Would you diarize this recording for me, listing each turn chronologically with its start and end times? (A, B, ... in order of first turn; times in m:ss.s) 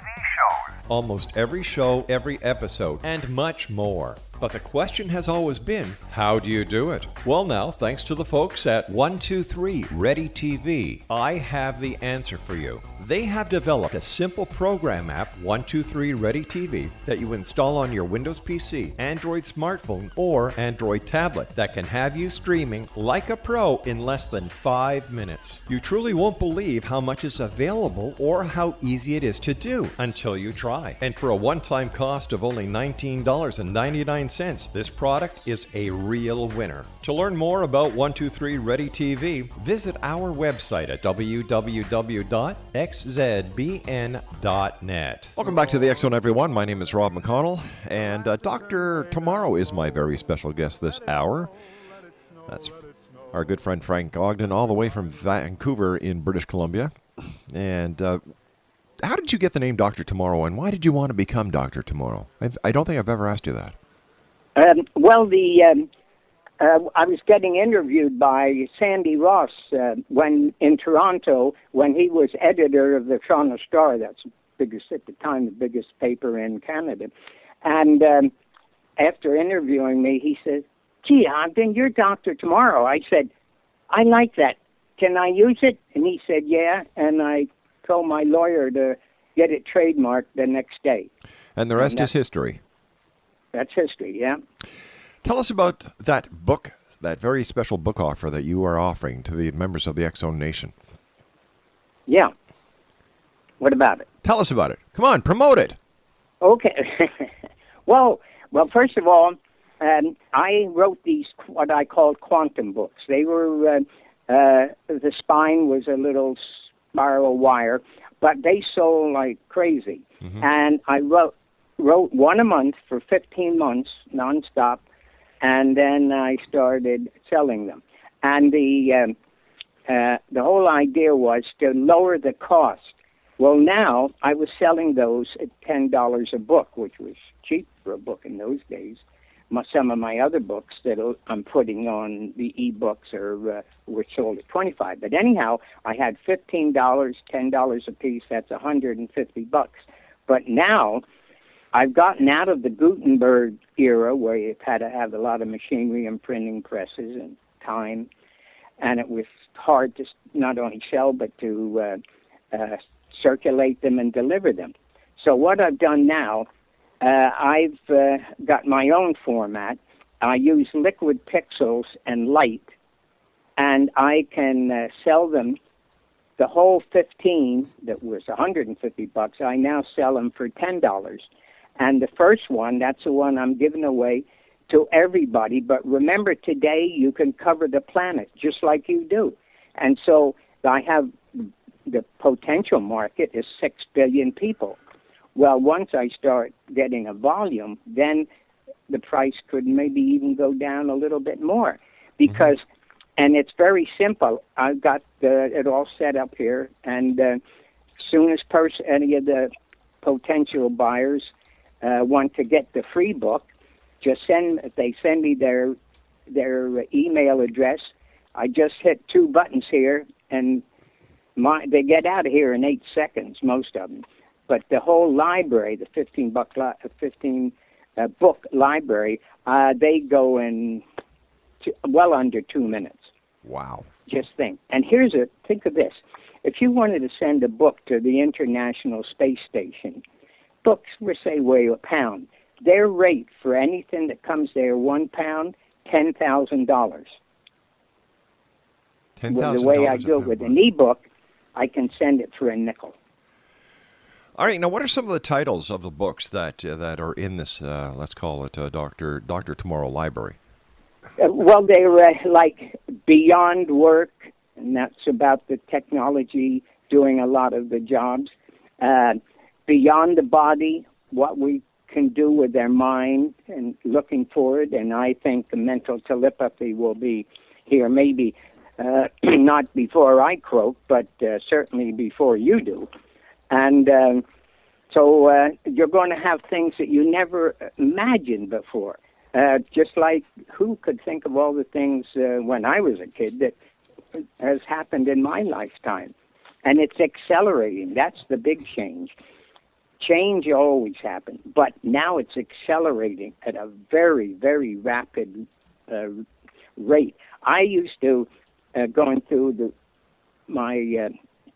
0:00.9-0:45.3 A
0:45.3-0:51.5 B
0:52.5-0:58.2 B
0:59.0-1:03.7 B
1:04.6-1:05.9 C
1:06.6-1:17.1 C
1:17.6-1:18.3 C
1:19.0-1:23.3 C
1:23.9-1:31.1 C
1:31.6-1:32.6 B
1:31.8-1:32.1 C
1:33.5-1:34.4 C
1:35.2-1:40.7 B
1:42.1-1:42.3 C
1:43.6-1:44.0 C
1:44.2-1:45.8 B
1:46.4-1:47.3 C
1:47.8-2:04.8 C
2:05.4-2:09.1 C
2:09.9-2:31.0 C
2:31.7-2:38.1 C
2:38.8-2:42.0 C
2:42.5-2:46.5 C
2:47.0-2:52.7 C
2:53.6-2:55.6 C
2:56.4-3:01.2 C
3:01.8-3:14.8 C
3:15.3-3:18.2 C
3:18.9-3:22.6 C
3:23.2-3:27.4 C
3:28.0-3:29.5 C
3:30.0-3:31.3 C
3:31.8-3:33.4 C
3:34.0-3:35.8 C
3:36.3-3:40.6 C
3:41.4-3:50.8 C
3:51.6-3:53.1 C
3:53.4-3:53.9 B
3:54.1-4:00.0 C
4:00.6-4:07.1 C
4:09.2-4:10.5 B
4:09.3-4:11.0 C
4:11.6-4:12.9 C
4:14.4-4:20.4 B
4:21.2-4:42.9 C
4:43.5-4:44.2 C
4:44.9-4:53.5 C
4:54.4-4:56.1 C
4:56.6-4:59.1 C
5:00.0-5:06.2 C
5:06.8-5:09.7 C
5:10.5-5:11.1 C